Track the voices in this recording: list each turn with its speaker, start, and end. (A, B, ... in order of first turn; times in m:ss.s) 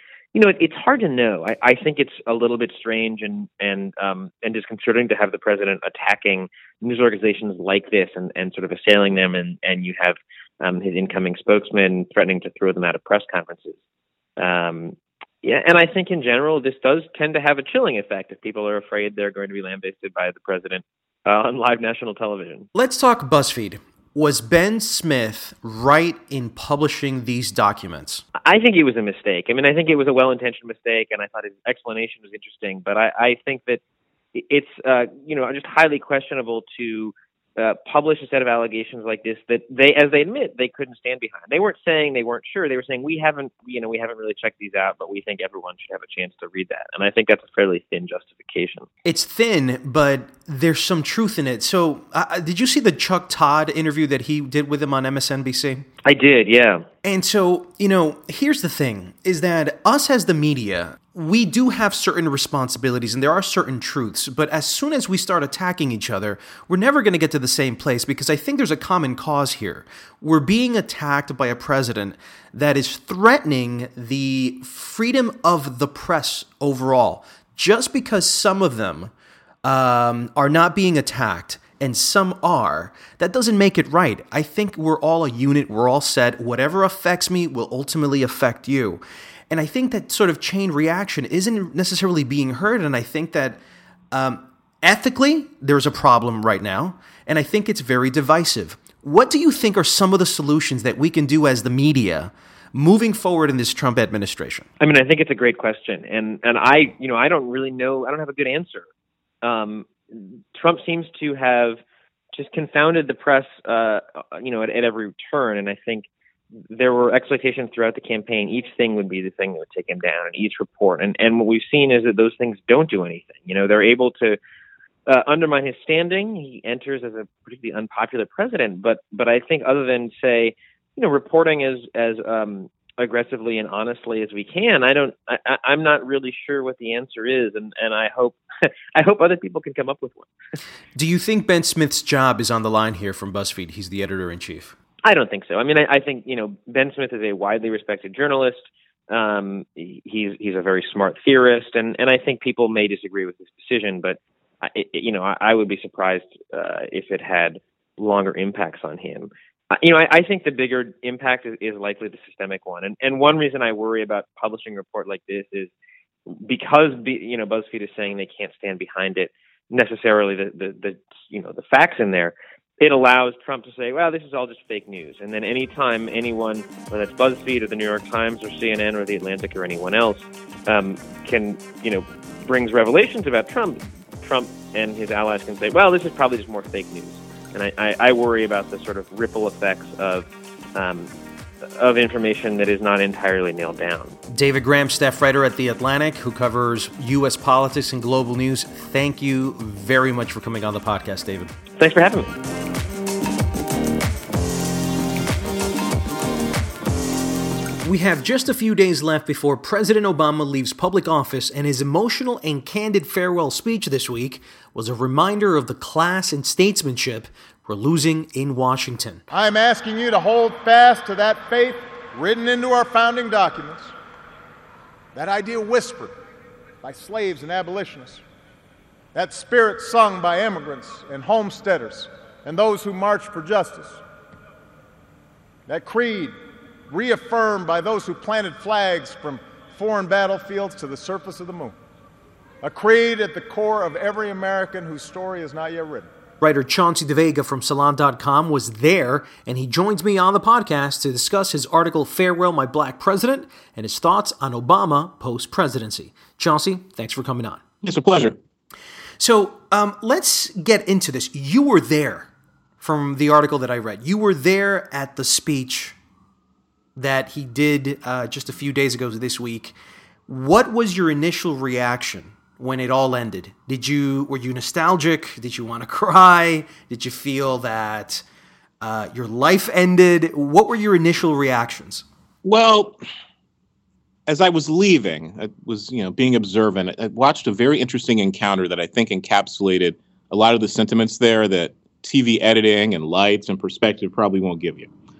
0:00.3-0:13.8 A
0:14.4-0:22.7 A
0:22.7-0:28.2 B
0:28.4-0:33.8 A
0:34.3-0:48.9 A
0:49.0-0:55.9 B
0:56.0-0:56.8 A
0:57.0-1:19.1 B
1:19.6-1:33.6 B
1:34.1-1:44.7 B
1:44.8-1:48.9 A
1:49.4-1:51.8 A
1:52.3-1:56.1 A
1:56.7-2:04.4 A
2:05.1-2:18.4 A
2:18.9-2:20.3 A
2:21.0-2:24.7 B
2:25.0-2:45.7 A
2:46.3-3:11.1 A
3:11.8-3:14.2 A
3:14.3-3:21.5 B
3:21.8-3:22.3 A
3:27.8-3:39.2 B
3:39.3-3:43.9 C
3:45.1-3:46.1 C
3:46.8-3:48.2 C
3:49.1-3:54.0 C
3:55.7-3:56.4 C
3:56.9-4:01.7 C
4:02.6-4:06.1 C
4:06.4-4:17.6 B
4:17.8-4:18.4 D
4:19.2-4:26.0 B
4:27.0-4:29.7 B
4:30.3-4:38.2 B
4:38.8-4:42.0 B
4:42.4-4:43.0 D
4:44.3-4:54.9 D